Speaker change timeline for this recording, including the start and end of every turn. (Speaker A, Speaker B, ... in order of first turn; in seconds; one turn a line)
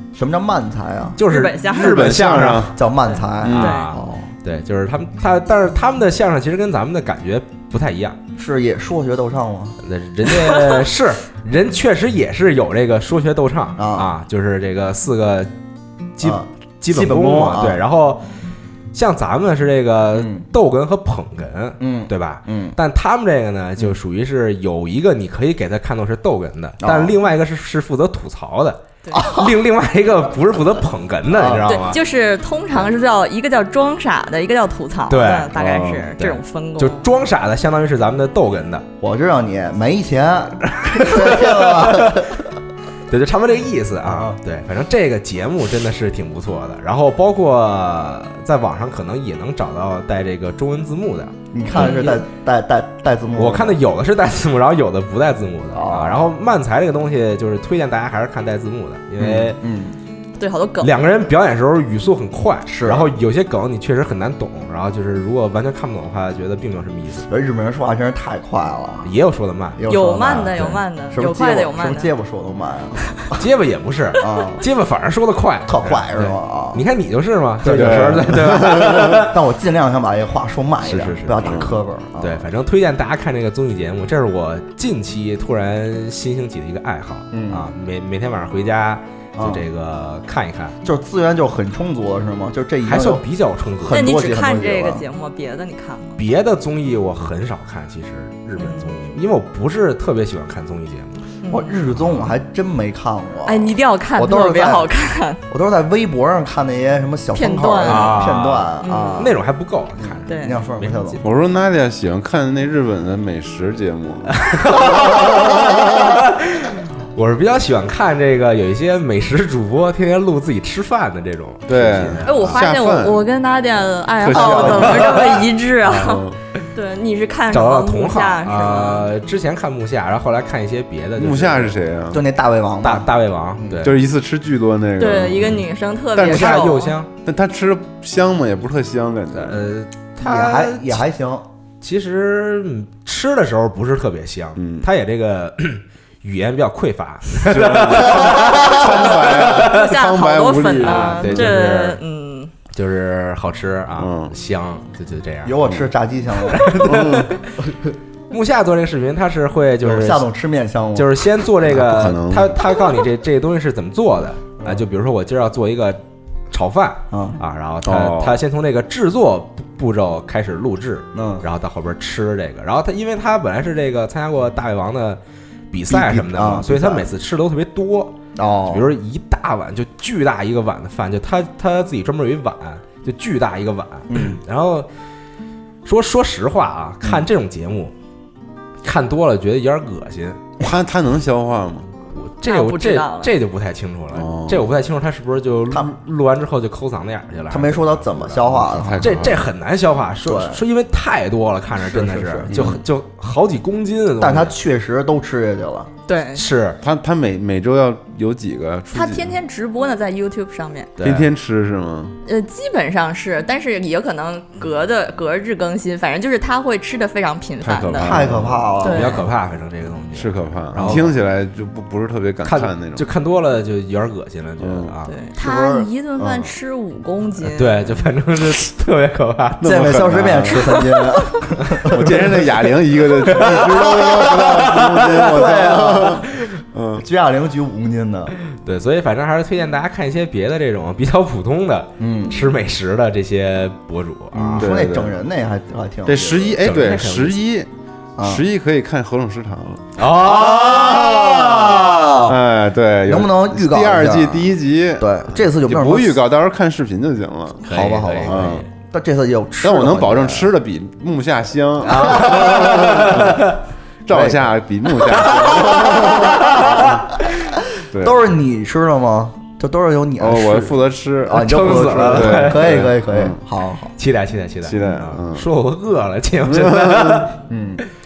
Speaker A: 0.1-1.2
Speaker B: 1.2-2.7
Speaker C: 1.3-2.1
Speaker D: 1.6-2.8
Speaker A: 1.9-4.3
Speaker C: 3.1-3.9
Speaker D: 3.4-3.7
Speaker B: 3.5-8.2
Speaker A: 8.4-9.8
Speaker B: 9.8-15.5
Speaker A: 13.8-14.1
Speaker B: 16.2-18.2
Speaker A: 16.2-17.8
Speaker B: 18.9-32.0
Speaker A: 20.1-20.5
Speaker A: 21.8-22.8
Speaker A: 26.8-27.1
Speaker A: 29.1-29.6
Speaker A: 31.3-31.7
Speaker C: 31.7-37.0
Speaker B: 35.1-35.5
Speaker D: 35.5-36.1
Speaker B: 36.2-38.9
Speaker A: 39.0-42.4
Speaker B: 40.8-42.2
Speaker B: 43.1-52.1
Speaker A: 44.0-44.4
Speaker A: 51.5-53.8
Speaker C: 51.7-52.2
Speaker B: 53.4-59.6
Speaker A: 55.7-56.3
Speaker A: 59.2-60.0
Speaker C: 60.4-61.0
Speaker B: 60.8-67.3
Speaker A: 62.7-63.1
Speaker A: 67.3-69.1
Speaker B: 69.0-69.8
Speaker A: 69.8-73.4
Speaker C: 69.9-72.1
Speaker B: 73.3-79.4
Speaker A: 74.2-74.6
Speaker A: 75.7-76.8
Speaker A: 77.6-82.5
Speaker D: 77.7-79.2
Speaker B: 80.8-81.5
Speaker D: 81.4-81.8
Speaker B: 82.2-90.8
Speaker A: 87.3-87.7
Speaker A: 89.4-89.7
Speaker A: 90.8-93.2
Speaker B: 92.9-94.0
Speaker A: 93.8-95.0
Speaker C: 93.9-96.2
Speaker B: 96.2-101.2
Speaker C: 98.6-98.9
Speaker C: 101.4-101.8
Speaker A: 101.5-104.9
Speaker B: 102.0-102.3
Speaker C: 103.5-105.4
Speaker A: 105.5-109.4
Speaker C: 107.3-108.3
Speaker B: 107.9-111.2
Speaker C: 108.8-109.4
Speaker A: 110.0-111.2
Speaker C: 110.3-110.6
Speaker D: 111.2-116.1
Speaker B: 114.4-122.6
Speaker D: 121.7-123.2
Speaker C: 122.2-129.1
Speaker D: 124.2-126.4
Speaker A: 124.3-125.2
Speaker B: 127.5-131.8
Speaker D: 131.2-132.2
Speaker A: 132.1-133.8
Speaker B: 132.8-134.0
Speaker D: 133.8-135.7
Speaker C: 135.0-136.9
Speaker D: 136.2-139.6
Speaker B: 136.2-137.1
Speaker B: 139.3-141.0
Speaker A: 140.2-141.4
Speaker B: 141.8-148.9
Speaker D: 144.6-144.9
Speaker D: 147.4-151.5
Speaker C: 148.7-152.5
Speaker B: 150.8-152.0
Speaker B: 152.7-155.6
Speaker D: 154.0-154.3
Speaker A: 155.4-157.0
Speaker B: 156.5-157.4
Speaker D: 156.8-157.3
Speaker A: 157.6-157.9
Speaker B: 158.3-160.3
Speaker A: 159.8-161.3
Speaker B: 160.9-166.0
Speaker D: 161.6-162.6
Speaker B: 166.5-175.2
Speaker A: 167.1-167.4
Speaker D: 167.8-168.4
Speaker A: 171.1-171.5
Speaker B: 175.7-178.2
Speaker A: 175.9-177.1
Speaker A: 178.4-178.9
Speaker B: 178.7-184.9
Speaker A: 184.1-184.4
Speaker B: 185.8-187.9
Speaker B: 188.8-190.4
Speaker D: 190.6-191.9
Speaker B: 192.1-198.4
Speaker C: 192.5-193.3
Speaker D: 194.1-194.7
Speaker A: 197.5-199.3
Speaker D: 198.5-199.5
Speaker B: 199.0-204.6
Speaker A: 200.2-200.6
Speaker A: 201.8-202.8
Speaker D: 202.5-202.8
Speaker A: 204.2-205.9
Speaker C: 206.1-206.4
Speaker B: 206.3-206.8
Speaker D: 206.8-209.3
Speaker C: 208.9-210.9
Speaker B: 211.0-211.3
Speaker D: 211.0-212.2
Speaker C: 212.3-218.2
Speaker D: 217.6-218.7
Speaker A: 217.9-219.2
Speaker C: 218.8-219.3
Speaker B: 218.8-221.1
Speaker D: 220.1-223.1
Speaker A: 220.7-221.1
Speaker B: 222.4-225.1
Speaker D: 224.6-224.9
Speaker C: 225.1-228.0
Speaker A: 225.3-226.5
Speaker B: 227.5-229.9
Speaker D: 229.6-230.9
Speaker A: 229.6-232.4
Speaker D: 231.9-237.0
Speaker B: 233.3-236.0
Speaker A: 233.3-236.2
Speaker A: 237.0-238.3
Speaker B: 238.6-244.7
Speaker A: 242.0-242.4
Speaker A: 244.4-246.7
Speaker D: 244.6-245.2
Speaker D: 246.1-247.7
Speaker B: 246.6-247.4
Speaker A: 248.2-248.4
Speaker D: 248.2-249.9
Speaker B: 250.0-252.1
Speaker A: 250.1-252.4
Speaker D: 252.3-257.7
Speaker A: 253.1-256.2
Speaker B: 257.6-258.7
Speaker A: 257.7-260.6
Speaker D: 258.2-258.6
Speaker D: 259.6-263.5
Speaker B: 261.9-263.6
Speaker A: 261.9-262.8
Speaker D: 264.1-267.0
Speaker A: 264.1-264.6
Speaker A: 265.2-267.0
Speaker B: 266.4-266.8
Speaker D: 267.9-268.2
Speaker A: 268.0-273.9
Speaker D: 270.2-273.4
Speaker B: 271.4-272.7
Speaker B: 274.0-277.4
Speaker D: 274.6-275.5
Speaker D: 276.5-277.3
Speaker A: 277.5-277.8